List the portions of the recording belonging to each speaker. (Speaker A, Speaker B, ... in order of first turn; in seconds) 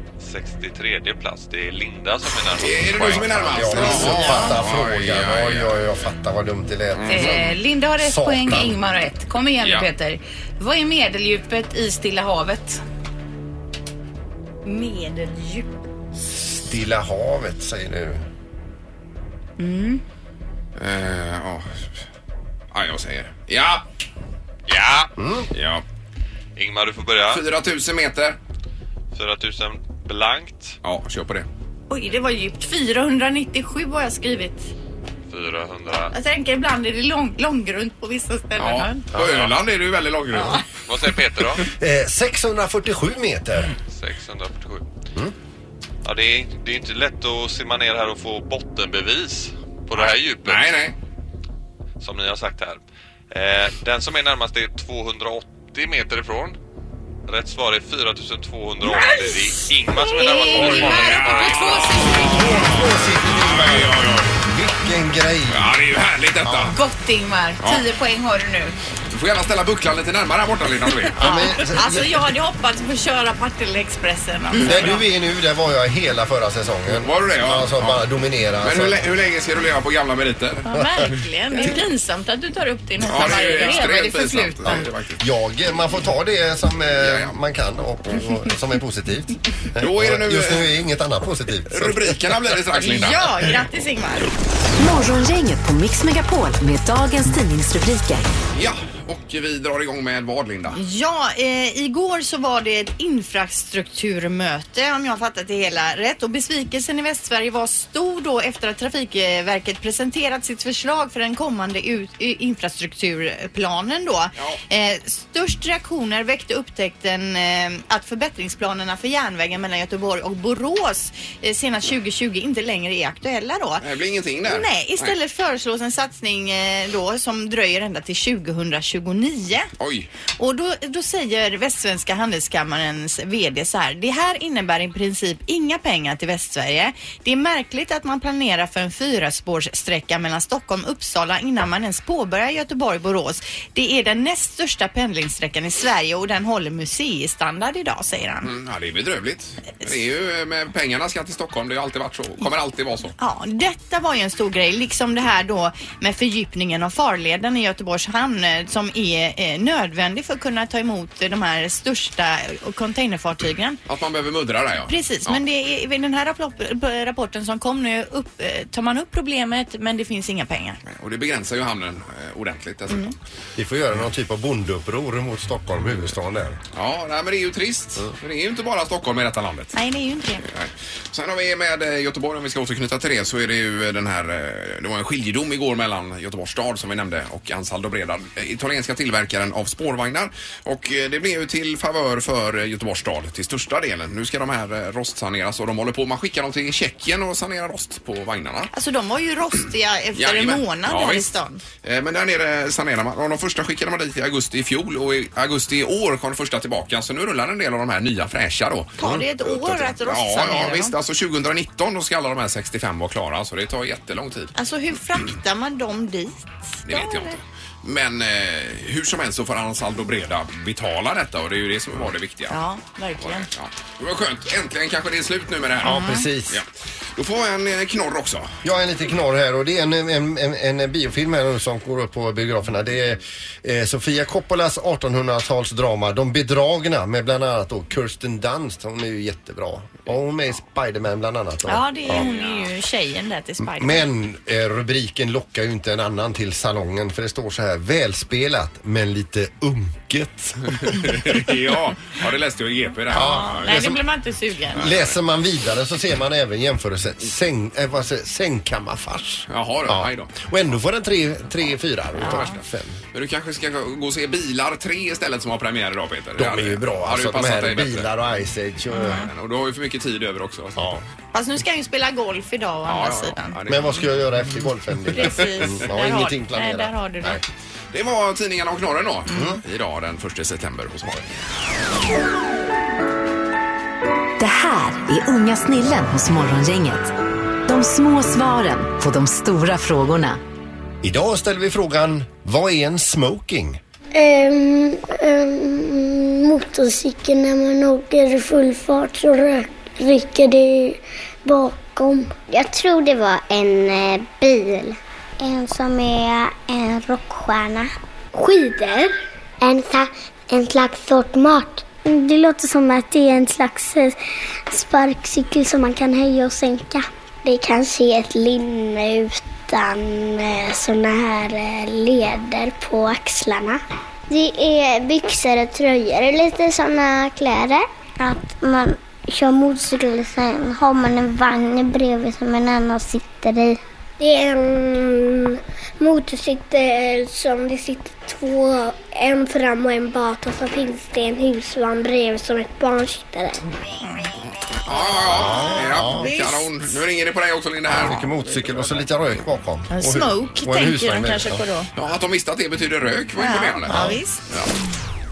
Speaker A: 0.2-3.7, 24.7-25.1, 26.6-27.4, 29.1-30.8, 35.3-36.1, 40.9-41.6, 43.9-44.8, 46.0-50.8, 52.0-56.6, 57.3-62.3
Speaker B: 2.5-5.8, 6.9-7.4, 9.6-9.9, 20.8-21.7, 22.7-23.8, 25.5-25.8, 27.3-28.4, 30.8-31.5, 38.6-40.6, 49.9-50.9, 60.5-64.4, 65.5-66.8, 69.1-71.3, 74.5-74.8, 76.9-78.0, 78.6-81.8, 83.0-85.2, 87.0-87.4, 89.8-90.8, 91.7-93.5, 98.5-100.8, 123.8-125.2, 129.8-130.1, 148.4-153.1, 163.9-165.4, 170.8-173.2, 176.7-179.8, 180.4-198.7, 200.1-201.3, 201.8-214.5, 216.8-222.6, 223.2-228.5, 242.1-242.6, 250.7-253.9, 254.7-255.2, 259.5-260.5, 262.2-262.5, 263.1-268.1, 268.9-270.9, 272.9-274.4, 275.2-275.7, 277.9-281.4, 344.8-349.4, 351.9-354.7
Speaker C: 3.1-8.8, 16.2-18.2, 25.2-25.5, 39.1-39.5, 41.8-43.7, 62.3-65.7, 66.4-66.7, 71.2-72.2, 74.6-79.1, 80.7-81.1, 84.7-92.3, 173.6-176.6, 225.8-226.6, 228.6-242.3, 243.6-251.2, 253.1-254.0, 254.7-263.0, 266.4-269.3, 270.8-271.0, 273.6-277.4, 279.3-279.6, 291.0-293.8, 345.2-346.3, 347.9-351.6, 353.9-354.2
Speaker D: 4.2-4.5, 7.1-12.8, 19.6-20.0, 60.0-62.6, 66.6-68.7, 83.5-84.5
Speaker E: 14.6-15.7, 31.9-34.7, 36.1-39.0, 71.2-75.0, 80.6-84.8, 92.7-94.3, 100.7-123.8, 124.4-129.7, 130.4-148.5, 153.2-163.8, 164.9-170.8, 172.9-173.1, 179.7-180.4, 198.7-201.6, 209.0-210.9, 214.5-217.4, 222.5-223.5, 225.8-226.2, 241.7-244.1, 253.1-254.9, 262.2-262.6, 268.9-269.3, 271.3-273.6, 275.1-277.4, 344.0-344.3, 344.9-345.5, 346.1-346.6, 349.9-351.9, 353.4-354.4
Speaker F: 94.8-98.3, 284.4-287.1, 287.7-290.4
Speaker G: 294.1-314.2, 314.7-343.8